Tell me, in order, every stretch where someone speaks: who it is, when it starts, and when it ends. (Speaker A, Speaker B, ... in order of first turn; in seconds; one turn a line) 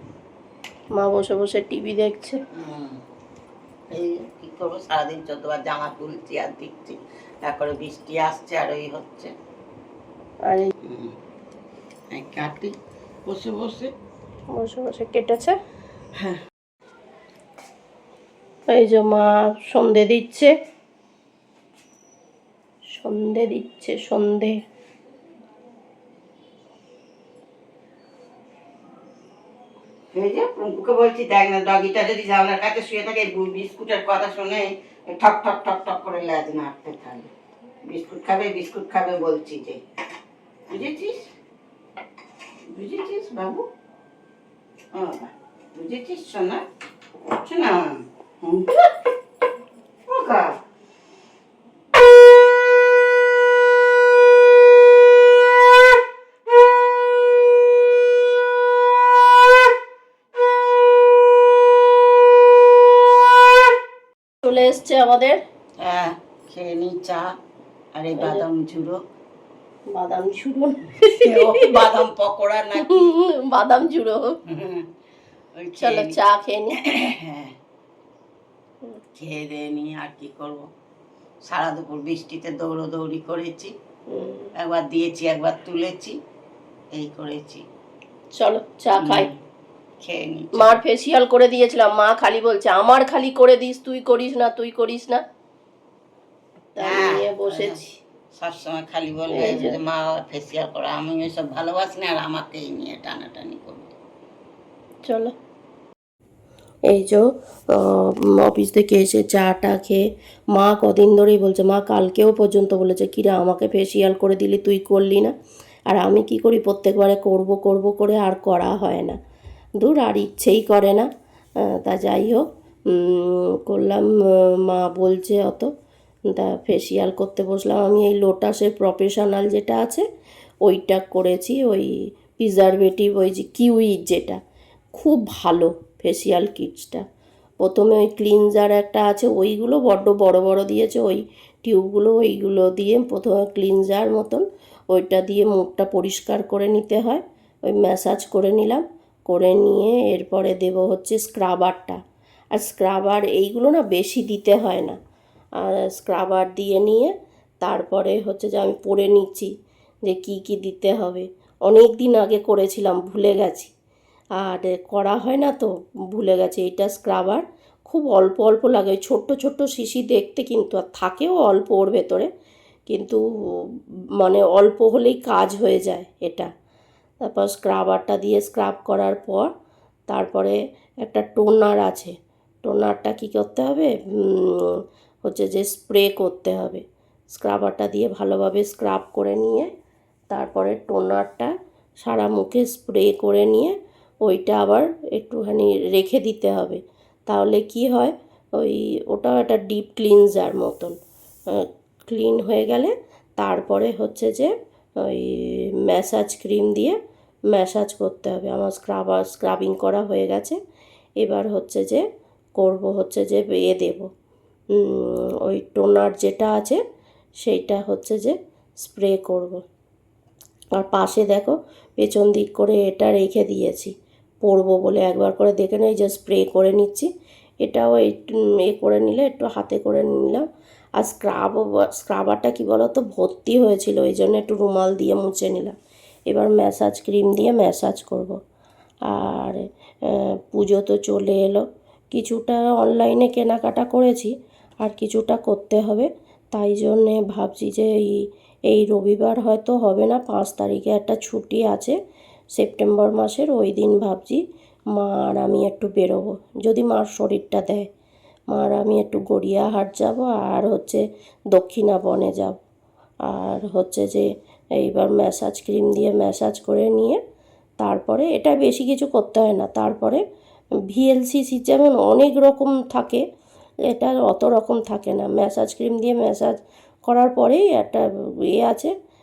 Speaker A: 0.9-2.4
Speaker B: 2.5-3.0
Speaker B: 3.9-9.3
Speaker B: 10.8-11.1
Speaker B: 12.1-12.7
Speaker B: 13.3-13.9
Speaker A: 14.5-15.6
Speaker A: 18.7-20.5
Speaker A: 23.0-24.6
Speaker B: 30.1-37.3
Speaker B: 37.9-39.8
Speaker B: 40.7-41.3
Speaker B: 42.7-43.6
Speaker B: 44.9-46.6
Speaker B: 47.3-48.9
Speaker B: 50.1-50.5
Speaker A: 64.4-65.4
Speaker B: 65.8-67.3
Speaker B: 67.9-69.0
Speaker A: 68.2-68.4
Speaker A: 69.9-71.8
Speaker B: 71.1-73.1
Speaker A: 72.8-74.4
Speaker B: 74.5-74.9
Speaker B: 75.5-76.2
Speaker A: 75.8-76.8
Speaker B: 76.8-77.5
Speaker B: 79.2-80.6
Speaker B: 81.5-83.7
Speaker A: 84.1-84.5
Speaker B: 84.6-86.2
Speaker B: 86.9-87.6
Speaker A: 88.3-89.3
Speaker B: 89.0-89.3
Speaker B: 90.0-90.8
Speaker A: 90.5-95.2
Speaker A: 96.7-98.0
Speaker B: 96.8-97.8
Speaker B: 98.4-103.9
Speaker A: 99.3-99.8
Speaker A: 105.0-105.3
Speaker A: 106.9-110.0
Speaker A: 110.5-115.3
Speaker A: 115.9-119.2
Speaker A: 119.8-121.1
Speaker A: 121.7-125.7
Speaker A: 126.3-130.0
Speaker A: 130.6-134.4
Speaker A: 134.9-137.0
Speaker A: 137.6-152.0
Speaker A: 152.5-155.0
Speaker A: 155.6-159.5
Speaker A: 160.1-163.7
Speaker A: 164.4-172.3
Speaker A: 172.9-176.5
Speaker A: 177.2-179.5
Speaker A: 180.1-189.7
Speaker A: 190.3-200.9
Speaker A: 201.5-207.0
Speaker A: 207.5-210.6
Speaker A: 211.2-212.0
Speaker A: 212.6-214.1
Speaker A: 214.8-216.8
Speaker A: 217.4-219.6
Speaker A: 220.8-227.1
Speaker A: 227.6-230.4
Speaker A: 231.0-235.7
Speaker A: 236.3-238.4
Speaker A: 239.1-251.9
Speaker A: 252.5-254.4
Speaker A: 254.9-257.9
Speaker A: 258.5-262.6
Speaker A: 263.3-264.2
Speaker A: 264.8-267.2
Speaker A: 267.8-270.2
Speaker A: 270.9-273.2
Speaker A: 273.9-278.9